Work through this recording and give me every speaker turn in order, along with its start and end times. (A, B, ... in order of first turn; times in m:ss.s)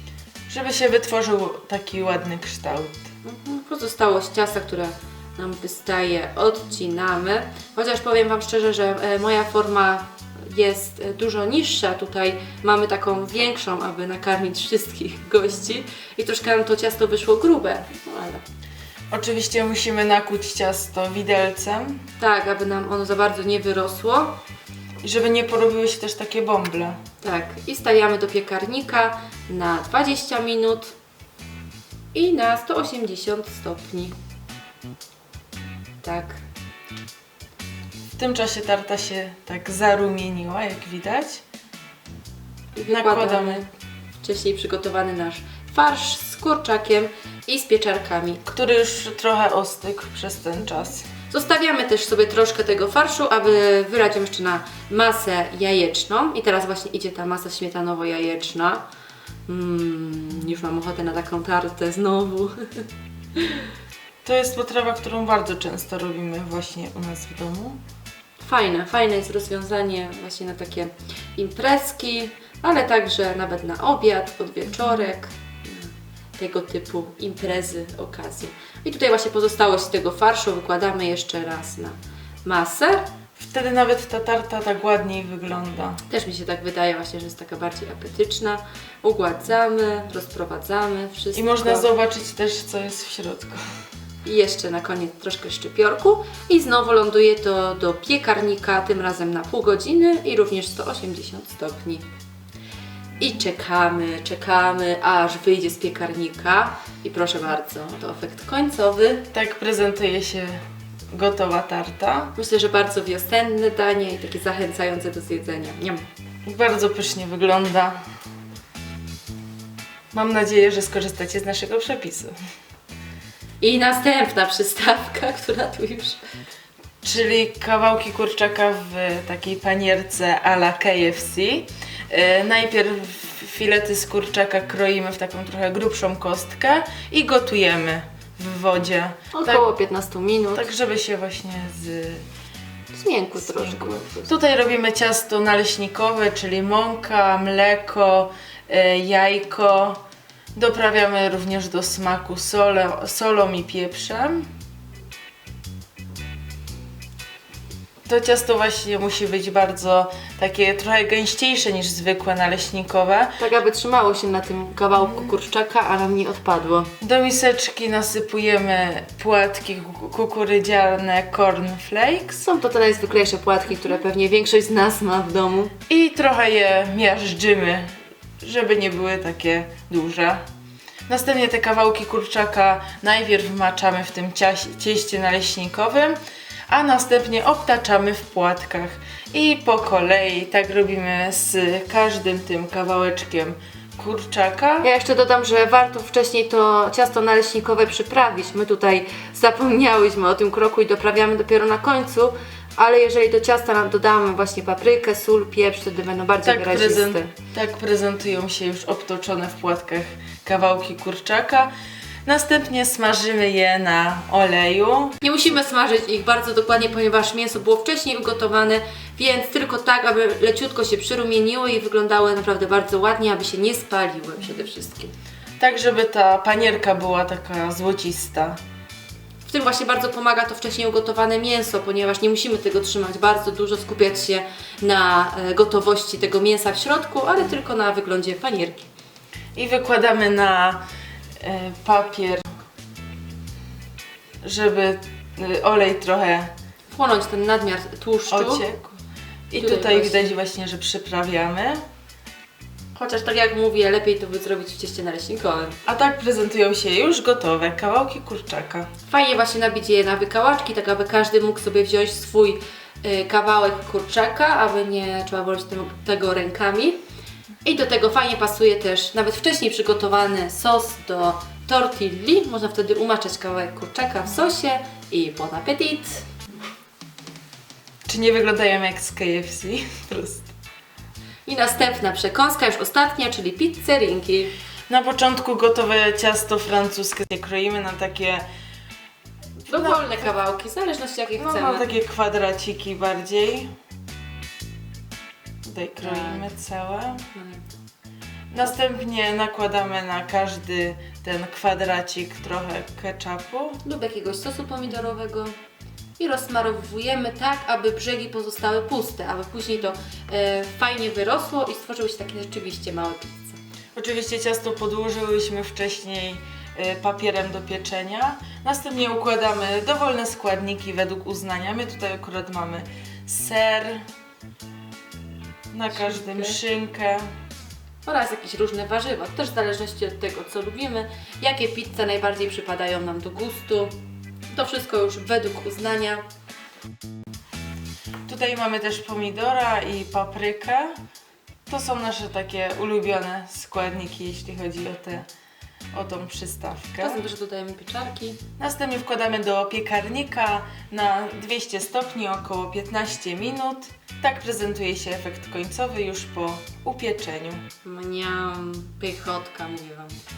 0:00.5-0:03.1 A
0:03.2-0:18.4 B
0:19.1-0:22.0 A
0:22.2-0:24.4 B
0:25.0-0:27.0 A
0:27.2-0:30.9 B
0:32.1-0:34.1 B
0:36.0-0:36.4 B
0:38.1-0:41.4 A
0:42.7-0:43.7 B
0:42.9-0:43.6 A
0:44.2-0:48.4 B
0:48.5-0:51.1 A
0:51.2-0:58.8 B
0:59.5-1:03.7 B
1:04.2-1:07.8 A
1:08.4-1:23.1 B
1:23.4-1:26.0 A
1:26.1-1:31.9 B
1:31.3-1:33.6 A
1:34.2-1:42.0 B
1:43.2-1:49.3 B
1:49.3-1:50.6 A
1:51.1-1:52.3 A
1:52.4-1:56.0 B
1:56.4-1:58.0 A
2:00.1-2:02.3 A
2:03.6-2:06.2 B
2:07.0-2:19.7 A
2:19.3-2:20.7 B
2:20.5-2:22.2 A
2:22.9-2:24.3 B
2:23.4-2:30.0 A
2:30.5-2:34.5 A
2:38.0-2:43.3 A
2:43.4-2:46.9 B
2:45.0-2:45.3 A
2:47.0-2:52.4 A
2:52.4-2:55.7 B
2:55.9-3:00.4 A
3:01.1-3:06.2 A
3:06.7-3:14.9 A
3:14.8-3:27.3 B
3:26.4-3:31.7 A
3:32.2-3:35.2 A
3:35.2-3:45.1 B
3:45.6-3:48.6 A
3:49.4-3:58.9 B
3:59.5-4:00.8 A
4:01.4-4:02.5 A
4:04.4-4:06.5 A
4:06.9-4:08.6 B
4:08.3-4:09.0 A
4:09.5-4:11.8 A
4:09.6-4:10.3 B
4:12.9-4:15.8 B
4:15.8-4:18.9 A
4:19.1-4:27.0 B
4:27.6-4:36.2 B
4:38.0-4:40.5 A
4:41.4-4:44.5 B
4:44.9-4:48.4 A
4:49.6-4:50.3 A
4:49.7-4:51.8 B
4:51.4-4:53.7 A
4:55.6-4:57.2 A
4:56.0-4:56.5 B
4:57.3-4:57.7 B
4:58.5-5:03.8 A
5:03.8-5:05.5 B
5:06.2-5:13.6 B
5:13.9-5:24.0 A
5:25.7-5:27.3 A
5:25.9-5:26.6 B
5:28.0-5:33.9 B
5:34.5-5:36.2 B
5:38.2-5:40.9 A
5:41.7-5:45.3 A
5:45.9-5:47.2 A
5:47.0-5:48.4 B
5:48.6-5:57.6 A
5:57.8-6:00.2 B